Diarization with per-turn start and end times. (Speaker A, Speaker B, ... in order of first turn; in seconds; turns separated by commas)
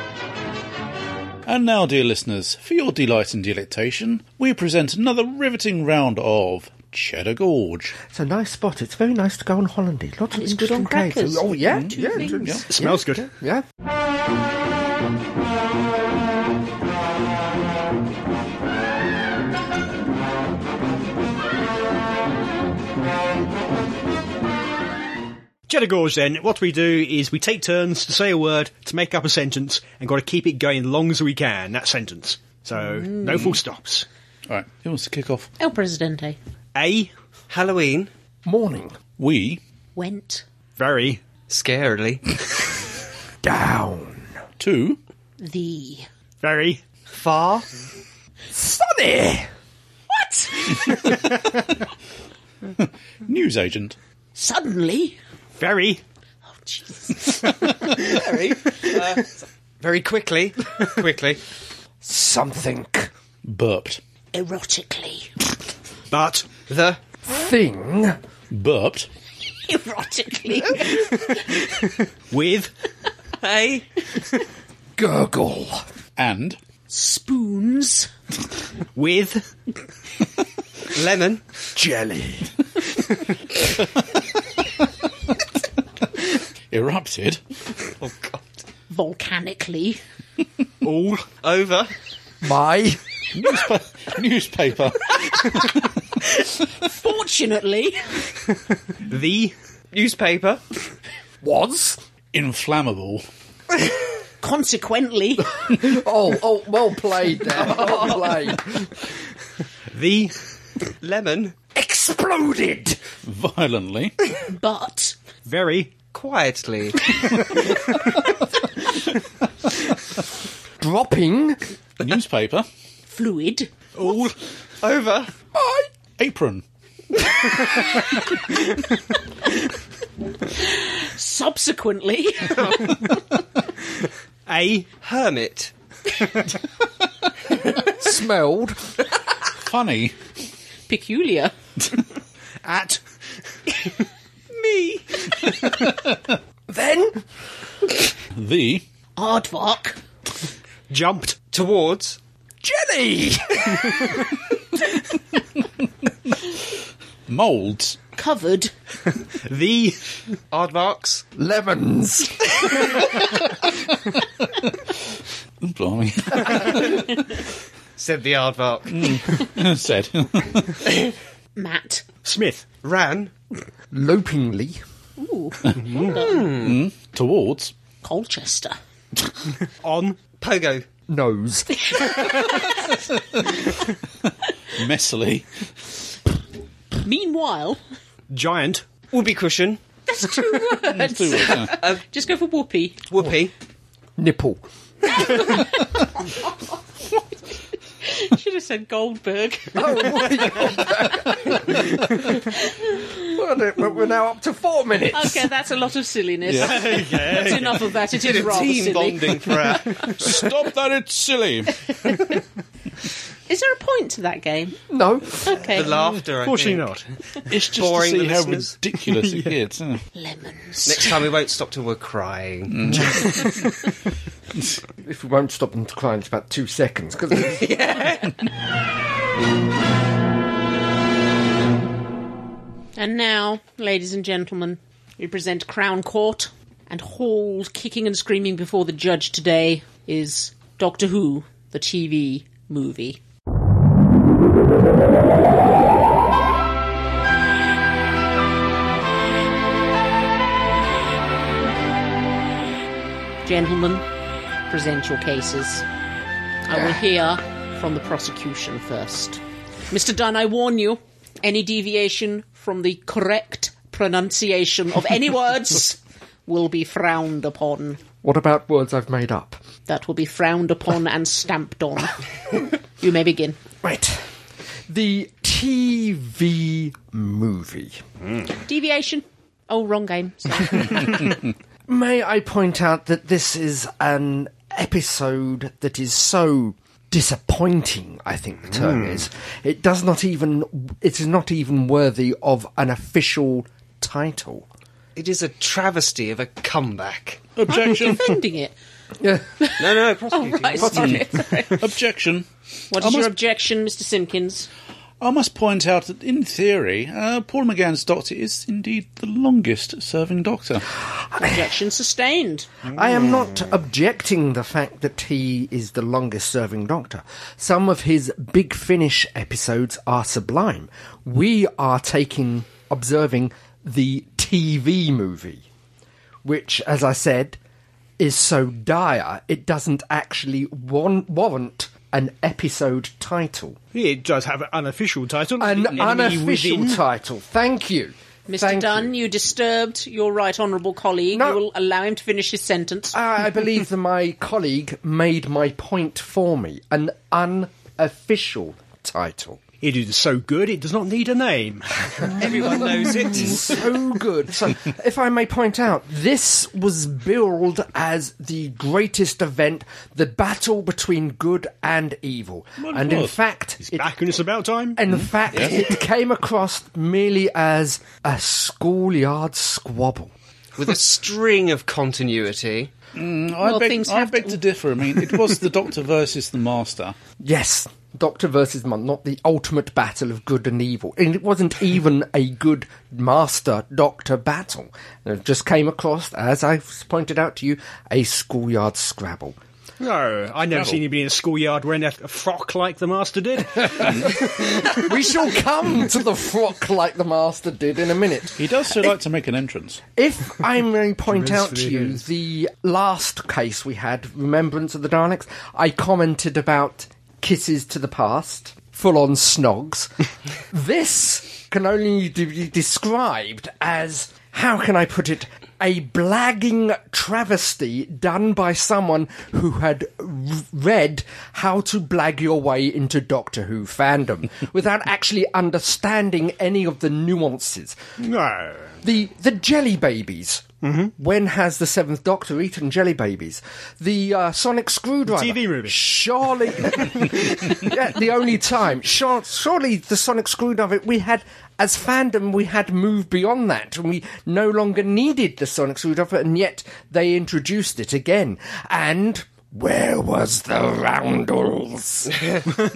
Speaker A: 1.4-8.0, Speaker B: 8.1-13.6, Speaker C: 10.3-12.6, Speaker A: 11.7-12.6, Speaker D: 12.7-13.3, Speaker D: 25.7-34.0, Speaker A: 34.5-35.5, Speaker C: 35.6-36.4, Speaker D: 36.7-37.1, Speaker E: 37.5-38.1, Speaker B: 38.4-39.0, Speaker A: 39.2-39.6, Speaker C: 40.0-40.4, Speaker D: 40.8-41.2, Speaker E: 41.5-42.6, Speaker B: 43.4-44.4, Speaker A: 44.6-45.0, Speaker C: 45.4-46.0, Speaker D: 46.4-46.8, Speaker E: 47.1-47.6, Speaker B: 48.5-49.5, Speaker C: 50.1-50.9, Speaker A: 52.8-54.0, Speaker C: 54.4-55.2, Speaker D: 55.6-56.0, Speaker C: 56.5-57.6, Speaker D: 57.6-58.5, Speaker E: 58.0-61.4, Speaker B: 62.0-63.1, Speaker A: 63.4-64.0, Speaker C: 64.3-65.3, Speaker D: 66.1-66.5, Speaker E: 66.7-67.0, Speaker B: 67.2-68.2, Speaker A: 68.5-69.1, Speaker C: 69.7-71.6, Speaker D: 72.3-72.7, Speaker E: 73.4-74.0, Speaker B: 75.0-75.8, Speaker A: 76.2-76.6, Speaker C: 76.9-78.1, Speaker D: 78.9-79.5, Speaker E: 80.9-81.4, Speaker B: 81.7-82.5, Speaker A: 86.7-87.4, Speaker E: 88.0-88.5, Speaker C: 88.9-90.0, Speaker D: 90.8-91.3, Speaker E: 91.4-91.9, Speaker B: 92.4-93.0, Speaker A: 93.3-96.4, Speaker C: 96.8-98.2, Speaker D: 99.0-99.5, Speaker E: 99.9-100.6, Speaker B: 101.4-102.0, Speaker A: 102.3-103.2, Speaker C: 104.4-105.6, Speaker B: 105.6-109.0, Speaker D: 109.9-110.4, Speaker E: 111.0-111.6, Speaker B: 111.7-113.0, Speaker A: 113.2-114.3, Speaker C: 114.5-115.2, Speaker D: 115.4-115.9, Speaker E: 116.1-117.2, Speaker B: 120.8-121.6, Speaker A: 122.0-122.7, Speaker C: 123.1-123.7, Speaker D: 123.9-124.3, Speaker E: 124.8-125.3, Speaker B: 125.5-125.9, Speaker A: 126.2-126.6, Speaker C: 130.6-133.0, Speaker D: 134.4-134.9, Speaker E: 135.0-135.7, Speaker B: 137.9-138.9, Speaker A: 139.7-140.1, Speaker C: 140.9-141.5, Speaker D: 142.6-143.0, Speaker B: 146.7-147.2, Speaker A: 148.3-148.8, Speaker C: 149.2-150.0, Speaker D: 150.9-151.4, Speaker E: 151.5-152.2, Speaker B: 152.6-154.4, Speaker A: 157.3-158.0, Speaker C: 158.2-158.7, Speaker D: 159.3-160.0, Speaker E: 160.5-161.2, Speaker B: 161.3-163.3, Speaker A: 165.6-167.2, Speaker E: 168.0-169.2, Speaker A: 168.9-170.8, Speaker C: 171.6-172.0, Speaker D: 172.2-172.6, Speaker E: 172.8-173.3, Speaker B: 173.9-174.8, Speaker C: 175.2-176.5, Speaker D: 175.8-176.2, Speaker E: 176.1-176.8, Speaker A: 176.4-177.7, Speaker C: 178.0-178.8, Speaker D: 179.8-180.2, Speaker E: 180.4-180.8, Speaker B: 181.1-182.3, Speaker A: 184.7-185.5, Speaker C: 187.0-187.8, Speaker D: 188.3-188.8, Speaker E: 189.1-189.8, Speaker C: 190.1-193.0, Speaker A: 190.8-191.8, Speaker E: 191.6-192.0, Speaker E: 193.1-193.5, Speaker B: 194.2-194.6, Speaker C: 195.2-196.5, Speaker C: 198.0-200.6, Speaker B: 199.7-202.4, Speaker C: 202.8-203.1, Speaker B: 203.1-205.5, Speaker C: 205.1-210.0, Speaker A: 206.4-207.4, Speaker D: 206.6-207.8, Speaker E: 208.1-210.4, Speaker A: 208.8-212.2, Speaker C: 213.5-214.8, Speaker B: 214.9-215.6, Speaker C: 215.4-215.9, Speaker E: 215.7-216.9, Speaker D: 216.0-217.1, Speaker A: 217.5-220.0, Speaker E: 217.6-218.8, Speaker D: 219.1-219.5, Speaker C: 220.1-221.2, Speaker E: 220.8-223.2, Speaker A: 222.7-223.4, Speaker D: 223.1-223.7, Speaker B: 225.0-227.7, Speaker E: 227.4-228.3, Speaker C: 232.9-243.2, Speaker C: 253.4-254.0, Speaker C: 254.7-255.8, Speaker C: 256.6-268.0, Speaker B: 268.2-269.6, Speaker C: 269.9-272.2, Speaker C: 273.0-273.6, Speaker B: 273.8-274.2, Speaker B: 274.9-278.0, Speaker C: 278.6-281.2, Speaker B: 281.9-294.7, Speaker D: 288.8-289.2, Speaker E: 295.1-297.5, Speaker A: 297.6-298.4, Speaker C: 297.7-298.8, Speaker C: 299.6-301.9, Speaker E: 299.8-301.1, Speaker A: 300.9-303.3, Speaker C: 302.9-304.7, Speaker A: 305.2-310.9, Speaker C: 311.4-312.7, Speaker B: 312.9-325.6, Speaker B: 326.4-327.6, Speaker B: 328.2-333.8, Speaker D: 333.9-337.0, Speaker B: 335.6-339.1, Speaker C: 338.5-343.2, Speaker B: 341.3-341.6, Speaker B: 343.1-349.6, Speaker D: 349.8-352.6, Speaker E: 352.4-353.8, Speaker B: 352.6-364.1, Speaker A: 362.8-363.3, Speaker D: 363.8-365.0, Speaker B: 364.9-370.3, Speaker A: 365.5-365.8, Speaker E: 370.8-372.9, Speaker A: 373.1-377.2, Speaker C: 373.6-374.6, Speaker B: 377.4-389.6, Speaker D: 390.0-395.0, Speaker A: 390.7-391.0, Speaker B: 393.8-398.6, Speaker A: 398.6-400.0, Speaker B: 400.1-410.1, Speaker D: 401.3-402.1, Speaker B: 410.7-428.1, Speaker D: 428.2-429.0, Speaker B: 429.0-452.4, Speaker D: 430.8-431.1, Speaker D: 435.3-436.0